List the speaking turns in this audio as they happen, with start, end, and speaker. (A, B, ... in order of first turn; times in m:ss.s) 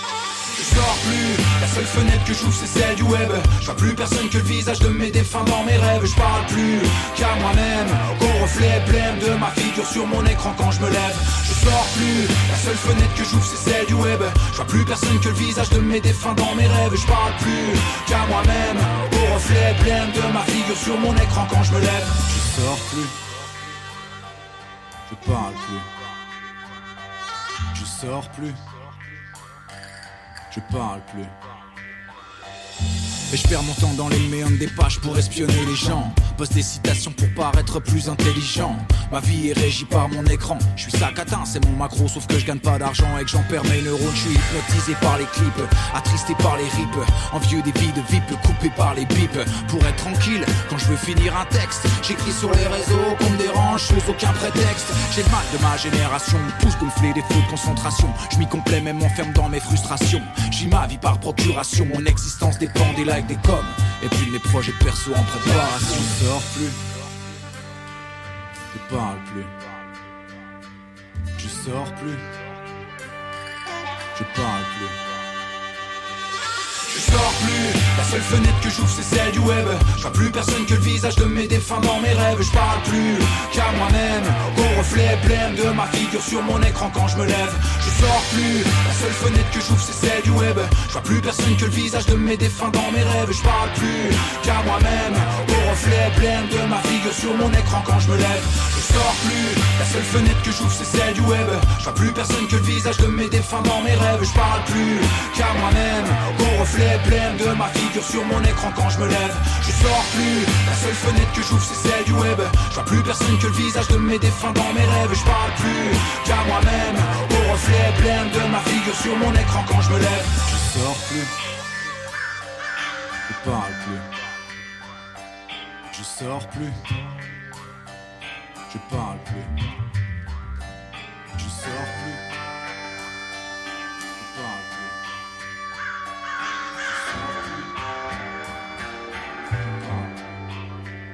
0:00.5-0:23.2 A
0:25.0-0:25.9 A
0:27.7-0:28.7 A
0:30.5-0:31.4 A
0:33.3-1:06.8 A
1:08.7-1:09.6 A
1:11.4-1:12.4 A
1:14.1-1:15.0 A
1:16.9-2:01.3 A
2:03.3-2:04.1 A
2:05.9-2:07.2 A
2:08.7-2:09.8 A
2:11.3-2:12.2 A
2:14.2-2:15.0 A
2:16.9-2:17.7 A
2:19.8-2:20.1 A